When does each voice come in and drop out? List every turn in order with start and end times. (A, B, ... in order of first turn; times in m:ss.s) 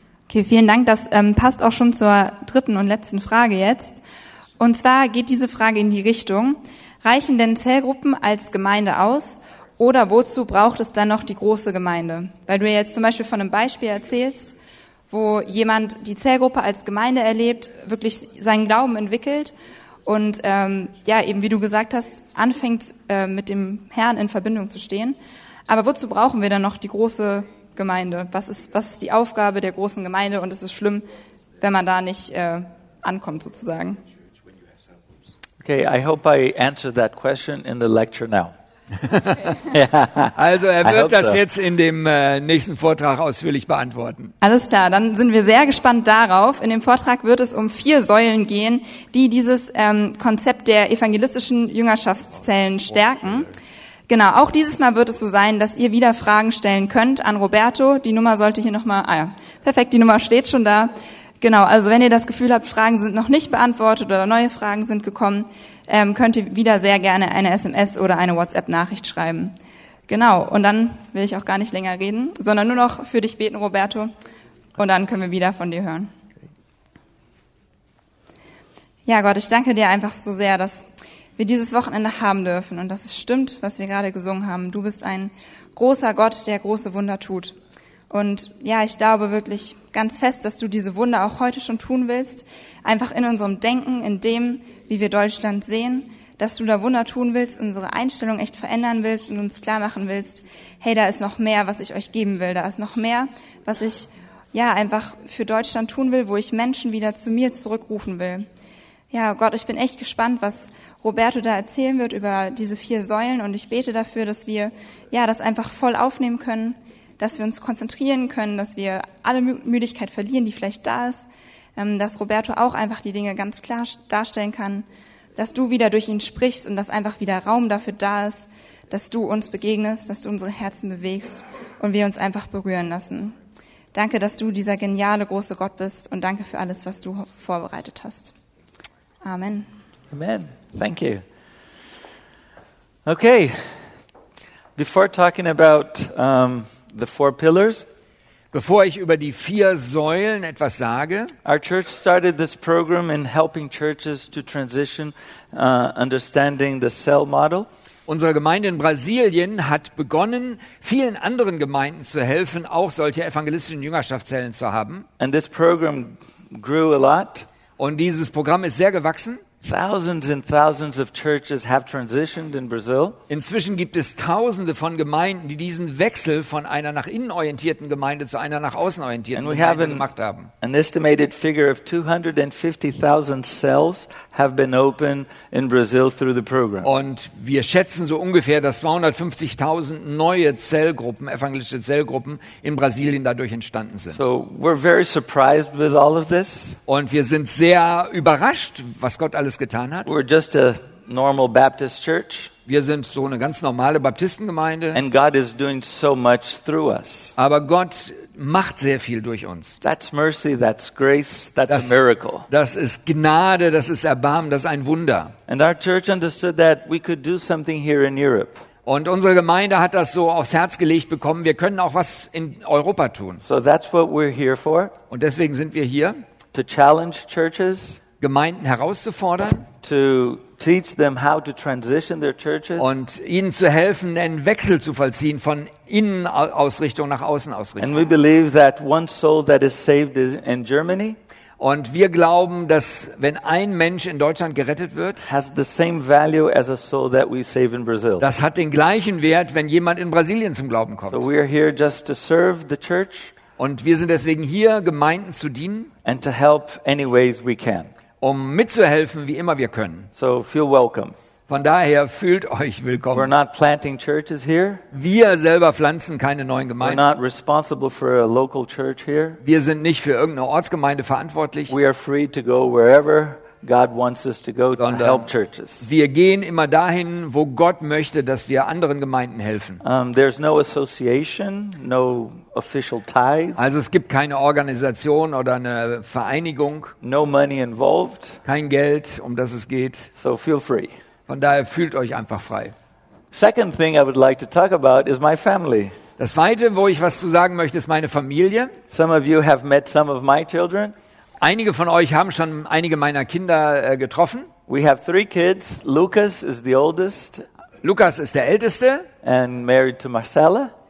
0:00.3-0:04.0 A
0:04.6-0:14.6 A
0:15.1-0:19.5 A
0:20.0-0:34.0 A
0:35.6-0:38.6 B
0:39.0-0:39.6 C
0:39.7-0:41.4 B
0:40.4-0:44.3 C
0:44.4-0:53.5 A
0:54.1-1:09.6 A
1:10.1-1:14.1 A
1:14.8-1:16.1 A
1:19.1-1:27.6 A
1:28.1-1:48.5 A
1:49.1-2:13.4 A
2:13.9-2:18.3 A
2:19.2-2:19.7 A
2:20.1-2:21.2 B
2:23.0-2:23.8 B
2:24.8-2:27.9 B
2:28.5-2:31.3 C
2:31.4-2:37.7 B
2:38.1-2:45.1 C
2:45.2-2:47.5 B
2:47.8-2:49.4 C
2:49.6-2:53.2 B
2:53.3-3:00.5 C
2:59.3-3:00.0 B
3:00.6-3:06.9 B
3:06.8-3:14.2 C
3:14.1-3:16.8 B
3:16.9-3:20.1 C
3:20.0-3:22.5 B
3:22.7-3:25.0 C
3:24.9-3:27.4 B
3:27.4-3:29.8 C
3:29.8-3:32.5 B
3:31.7-3:32.0 C
3:32.5-3:35.3 C
3:35.5-3:38.7 B
3:38.9-3:43.4 C
3:43.4-3:44.9 B
3:45.1-3:46.2 C
3:46.5-3:48.0 B
3:48.2-3:49.7 C
3:49.8-3:53.0 B
3:52.8-3:57.9 C
3:57.8-4:01.2 B
4:01.6-4:05.2 C
4:05.2-4:08.3 B
4:08.2-4:11.2 C
4:11.1-4:13.3 B
4:13.6-4:15.9 C
4:16.0-4:17.9 B
4:18.2-4:20.1 C
4:20.2-4:21.2 B
4:21.5-4:23.3 C
4:23.1-4:24.8 B
4:24.9-4:27.0 C
4:26.8-4:29.4 B
4:29.4-4:31.7 C
4:31.7-4:35.9 B
4:34.8-4:35.3 C
4:35.8-4:39.8 C
4:39.8-4:43.6 B
4:43.6-4:46.9 C
4:47.0-4:48.4 B
4:48.5-4:50.1 C
4:50.2-4:51.0 B
4:51.3-4:52.8 C
4:53.3-4:56.0 B
4:56.2-4:58.7 C
4:58.9-5:01.0 B
5:01.4-5:04.5 C
5:04.7-5:07.5 B
5:07.8-5:09.1 C
5:09.2-5:10.7 B